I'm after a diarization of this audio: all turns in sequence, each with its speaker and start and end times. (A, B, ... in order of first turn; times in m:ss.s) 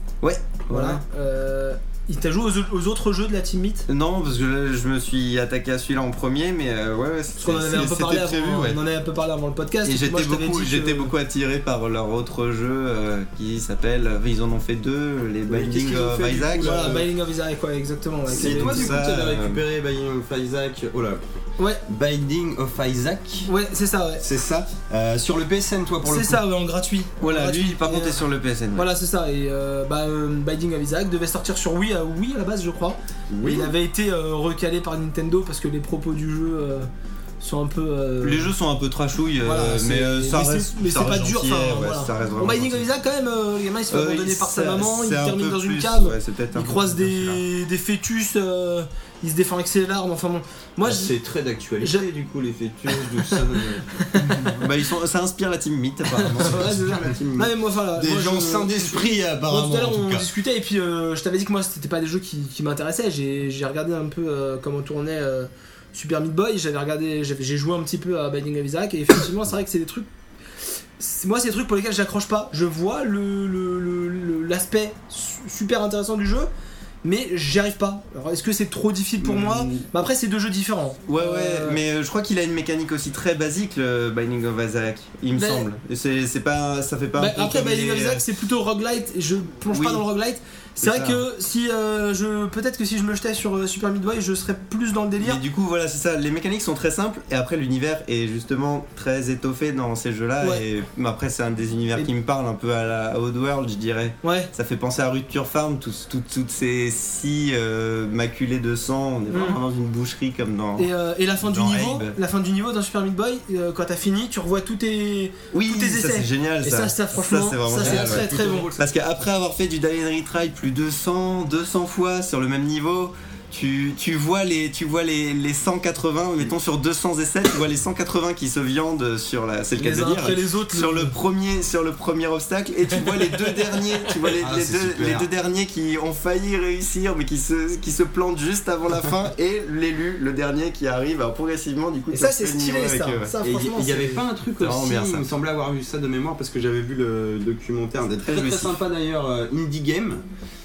0:00.2-0:01.0 A
0:00.7-0:03.9 B
0:03.9-0:08.8 A
0:07.4-0:11.1 B
0:09.8-0:17.0 A
0:15.5-0:17.1 C
0:16.6-0:18.9 B
0:18.2-0:21.2 C
0:18.3-0:19.6 A
0:21.9-0:23.5 C
0:23.4-0:24.2 B
0:24.2-0:26.4 C
0:26.0-0:28.2 B
0:27.2-0:28.9 A
0:28.7-0:36.9 B
0:33.3-0:33.7 C
0:37.4-0:38.5 B
0:38.2-0:42.8 A
0:39.4-0:51.1 B
0:43.9-0:47.4 A
0:50.8-0:54.5 C
0:52.9-0:53.4 B
0:54.0-0:54.6 B
0:54.4-0:56.8 A
0:56.1-1:10.1 B
0:56.6-1:00.3 C
1:11.0-1:16.5 B
1:17.0-1:21.8 B
1:19.2-1:19.8 A
1:21.1-1:28.2 A
1:25.3-1:25.6 B
1:27.2-1:35.4 B
1:29.7-1:30.0 A
1:30.8-1:31.2 A
1:35.2-1:52.2 A
1:44.2-1:44.5 B
1:49.3-1:49.6 B
1:50.8-1:58.7 B
1:55.5-2:23.3 A
1:57.8-1:58.9 C
2:09.8-2:11.1 B
2:14.4-2:15.3 C
2:22.1-2:24.2 B
2:23.4-2:30.2 C
2:24.6-2:25.3 A
2:28.2-2:28.8 A